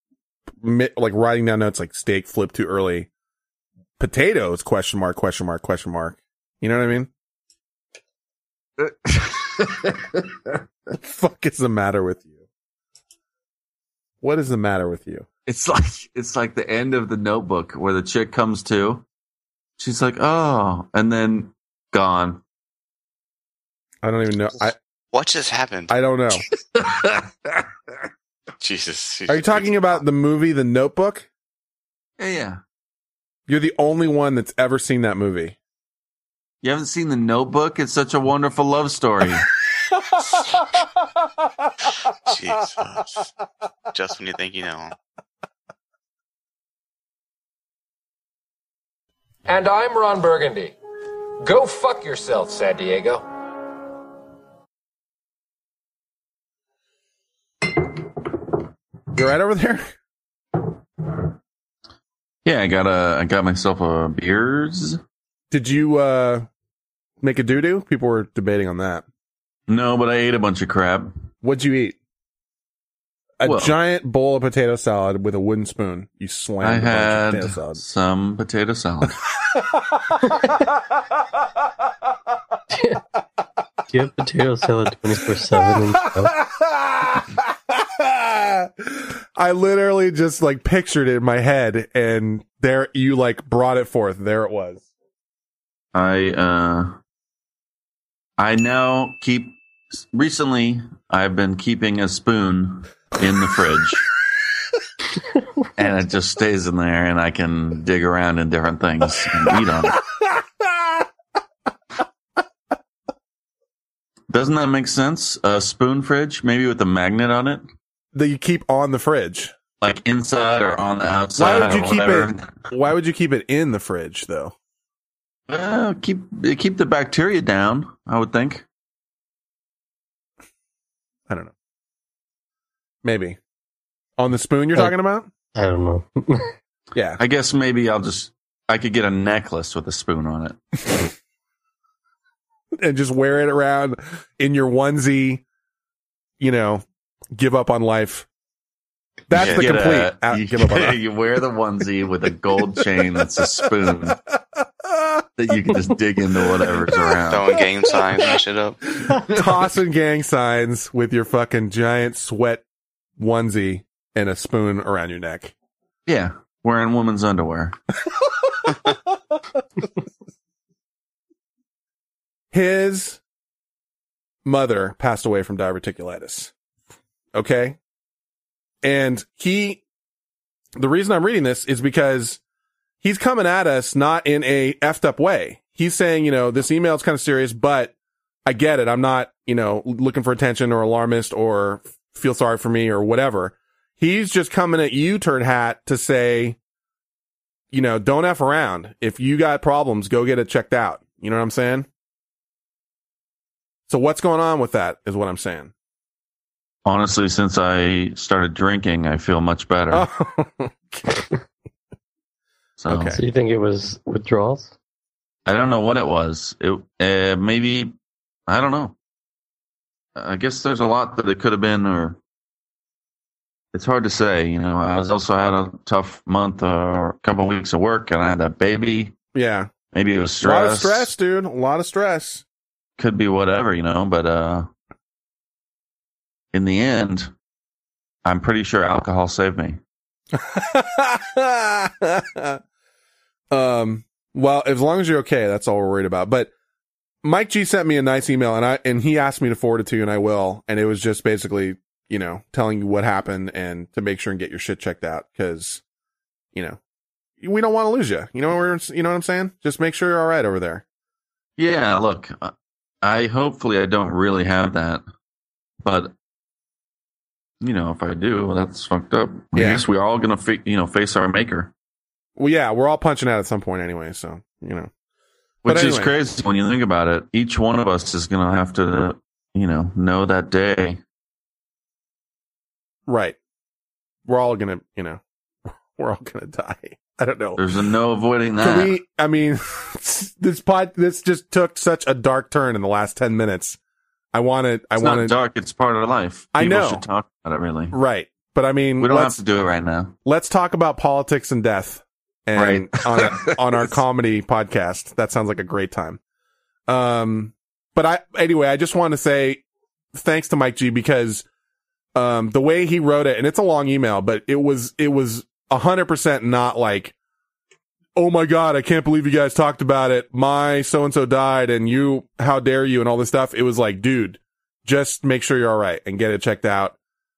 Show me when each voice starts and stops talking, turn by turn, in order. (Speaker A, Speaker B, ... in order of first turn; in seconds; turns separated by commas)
Speaker A: 0.6-3.1, Speaker A: 4.0-7.1, Speaker B: 8.8-9.9, Speaker A: 10.9-12.3, Speaker A: 14.2-15.3, Speaker B: 15.4-19.0, Speaker B: 19.8-22.4, Speaker A: 24.0-24.7, Speaker C: 25.1-25.9, Speaker A: 25.9-26.4, Speaker B: 26.8-27.2, Speaker C: 28.6-30.0, Speaker A: 29.3-31.3, Speaker B: 32.2-32.6, Speaker A: 33.5-35.5, Speaker B: 36.6-39.5, Speaker C: 42.3-43.3, Speaker C: 43.9-45.0, Speaker D: 49.5-50.8, Speaker D: 51.4-53.2, Speaker A: 59.1-59.9, Speaker B: 62.5-65.0, Speaker A: 65.5-66.5, Speaker A: 67.2-69.0, Speaker B: 69.7-71.1, Speaker A: 71.4-72.0, Speaker A: 73.4-77.8, Speaker B: 73.4-73.8, Speaker B: 76.6-79.2, Speaker A: 79.7-80.0, Speaker E: 82.7-83.0, Speaker E: 83.9-86.3, Speaker A: 85.8-94.9, Speaker B: 95.9-97.0, Speaker B: 98.4-104.0, Speaker B: 105.8-110.0, Speaker B: 114.3-117.6, Speaker A: 118.1-119.5, Speaker B: 119.8-122.5, Speaker A: 121.4-124.5, Speaker B: 125.5-128.6, Speaker A: 133.0-133.4, Speaker A: 134.2-135.3, Speaker E: 135.6-136.5, Speaker A: 136.9-137.2, Speaker B: 137.2-140.6, Speaker A: 142.8-145.4, Speaker A: 146.4-146.8, Speaker A: 147.3-148.3, Speaker A: 149.3-151.0, Speaker C: 149.3-149.8, Speaker B: 149.3-154.2, Speaker B: 155.4-157.5, Speaker C: 157.3-158.8, Speaker A: 159.3-162.6, Speaker A: 163.2-165.5, Speaker B: 166.1-167.8, Speaker A: 172.5-173.2, Speaker A: 174.4-176.5, Speaker A: 177.3-177.8, Speaker A: 178.8-179.8, Speaker A: 180.8-182.4, Speaker A: 183.0-187.9, Speaker A: 188.4-196.6, Speaker A: 197.7-201.9, Speaker A: 203.9-205.7, Speaker B: 206.8-210.1, Speaker A: 209.9-211.2, Speaker B: 212.8-213.2, Speaker A: 212.9-213.2, Speaker E: 213.0-214.7, Speaker B: 215.4-217.9, Speaker B: 218.5-218.9, Speaker B: 220.2-222.2, Speaker B: 223.7-229.1, Speaker A: 229.3-229.7, Speaker B: 229.9-231.1, Speaker A: 230.4-232.4, Speaker B: 233.0-234.7, Speaker B: 236.5-237.3, Speaker B: 238.2-239.8, Speaker A: 240.3-242.6, Speaker A: 243.5-246.5, Speaker A: 247.2-255.8, Speaker A: 257.4-260.8, Speaker B: 261.6-265.0, Speaker B: 265.8-266.1, Speaker B: 267.6-271.7, Speaker A: 269.5-269.8, Speaker A: 272.4-274.9, Speaker B: 275.6-281.0, Speaker A: 275.6-276.1, Speaker A: 283.1-283.4, Speaker A: 284.3-285.2, Speaker A: 285.9-287.6, Speaker B: 287.6-288.9, Speaker A: 288.6-293.8, Speaker A: 294.3-295.4, Speaker B: 295.0-297.9, Speaker A: 296.5-297.0, Speaker A: 297.9-299.4, Speaker B: 299.0-300.1, Speaker A: 300.2-306.2, Speaker B: 302.6-303.9, Speaker A: 306.9-309.6, Speaker A: 310.1-311.4, Speaker A: 312.1-317.1, Speaker A: 318.1-326.9